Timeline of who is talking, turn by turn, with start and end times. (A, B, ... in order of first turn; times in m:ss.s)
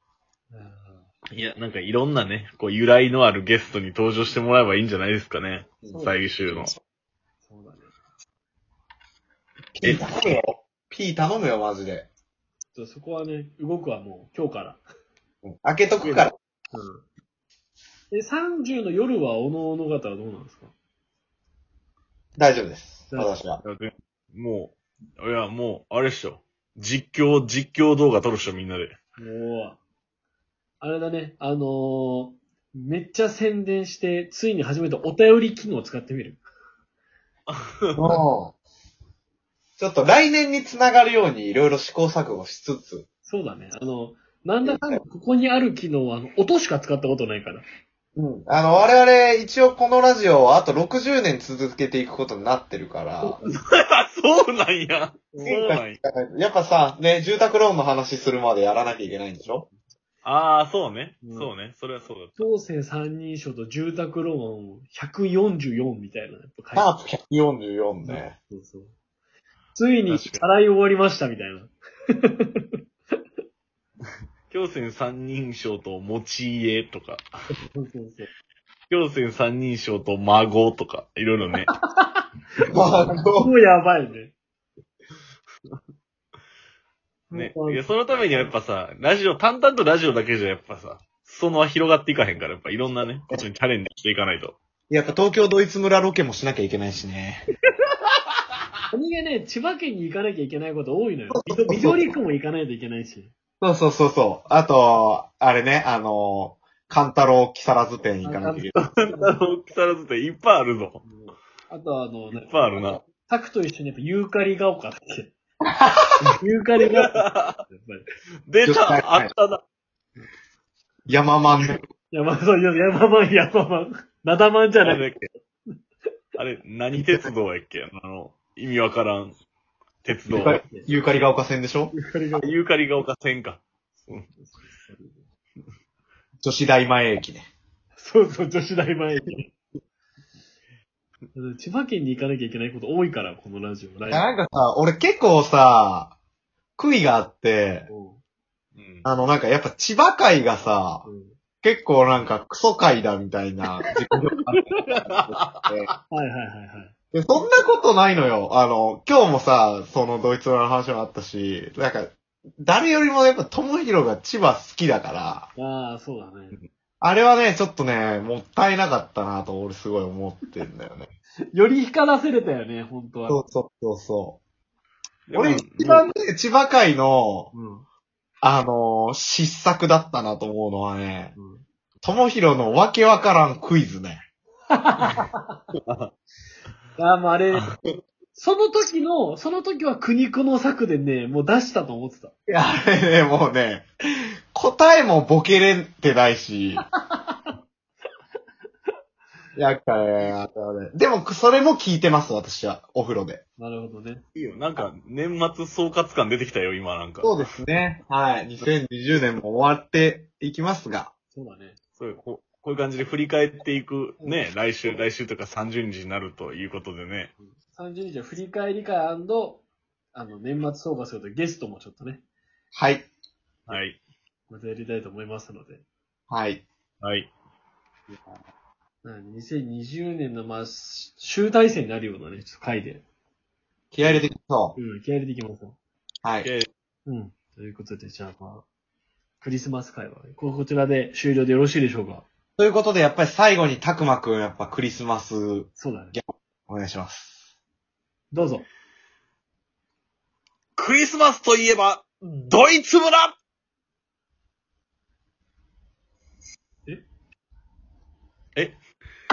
0:00.5-0:01.1 A
0:01.3-0:06.7 B
0:05.9-0:06.2 A
0:07.4-0:07.9 A
0:09.8-0:12.1 C
0:12.7-0:14.8 A
0:15.4-0:16.3 C
0:16.0-0:17.0 A
0:18.1-0:20.7 A
0:22.4-0:23.6 C
0:23.6-0:29.0 B
0:29.2-0:29.8 A
0:30.8-0:36.4 A
0:37.5-0:37.9 B
0:37.9-0:38.6 C
0:39.8-0:43.1 C
0:43.3-0:47.6 A
0:44.6-0:45.0 C
0:48.1-0:53.4 C
0:53.2-0:53.6 A
0:53.4-0:56.0 B
0:55.3-0:55.6 A
0:55.4-0:59.6 C
1:00.2-1:02.5 B
1:01.2-1:01.5 A
1:02.4-1:06.9 A
1:06.7-1:08.4 C
1:08.0-1:08.9 A
1:09.7-1:12.8 A
1:10.1-1:10.4 B
1:14.5-1:17.2 B
1:17.7-1:18.3 A
1:18.9-1:21.7 B
1:21.6-1:22.3 A
1:22.7-1:23.5 C
1:23.4-1:24.3 A
1:27.3-1:28.5 A
1:27.3-1:34.6 B
1:34.9-1:37.4 C
1:38.9-1:43.3 A
1:41.3-1:42.2 C
1:43.6-1:48.7 C
1:48.2-1:49.4 A
1:48.7-1:51.0 B
1:51.0-1:55.3 A
1:52.3-1:53.0 B
1:55.6-1:56.2 C
1:56.4-1:58.0 A
1:56.8-1:57.6 B
1:58.5-1:59.6 B
1:58.6-1:59.3 C
2:01.1-2:01.8 C
2:02.1-2:05.0 A
2:04.8-2:05.3 B
2:06.4-2:09.4 B
2:10.0-2:10.6 B
2:10.3-2:11.9 C
2:10.4-2:10.9 A
2:11.9-2:12.5 A
2:12.3-2:14.3 B
2:14.3-2:15.2 A
2:16.4-2:17.4 C
2:18.0-2:19.5 A
2:21.3-2:24.3 A
2:24.1-2:26.1 C
2:26.8-2:27.9 C
2:27.9-2:28.2 A
2:28.8-2:29.0 B
2:29.0-2:31.1 C
2:31.0-2:31.4 A
2:31.6-2:35.9 C
2:34.8-2:36.0 B
2:36.1-2:37.6 A
2:37.1-2:45.5 C
2:45.6-2:46.6 A
2:47.0-2:51.1 C
2:51.5-2:53.4 A
2:53.3-2:54.4 C
2:55.3-2:56.0 B
2:55.3-2:57.5 C
2:57.5-2:57.8 A
2:58.4-3:01.3 C
3:01.4-3:01.6 A
3:02.0-3:04.2 C
3:04.7-3:05.6 A
3:05.7-3:06.1 B
3:07.0-3:07.7 A
3:08.3-3:12.3 A
3:12.5-3:13.9 C
3:14.5-3:16.8 C
3:16.9-3:17.6 A
3:19.6-3:23.4 C
3:23.6-3:24.2 A
3:24.3-3:27.5 B
3:27.2-3:31.1 C
3:31.3-3:31.8 A
3:32.0-3:37.3 B
3:37.4-3:42.2 A
3:42.7-3:43.1 C
3:43.7-3:44.0 B
3:44.5-3:45.8 A
3:46.3-3:46.6 C
3:47.0-3:47.3 B
3:49.0-3:53.0 A
3:53.9-3:54.8 C
3:54.0-3:55.8 A
3:56.2-3:56.5 C
3:56.4-3:56.7 B
3:57.0-3:58.6 A
3:59.4-4:02.2 A
4:02.6-4:07.4 C
4:05.8-4:06.2 A
4:08.3-4:08.7 A
4:10.8-4:13.4 B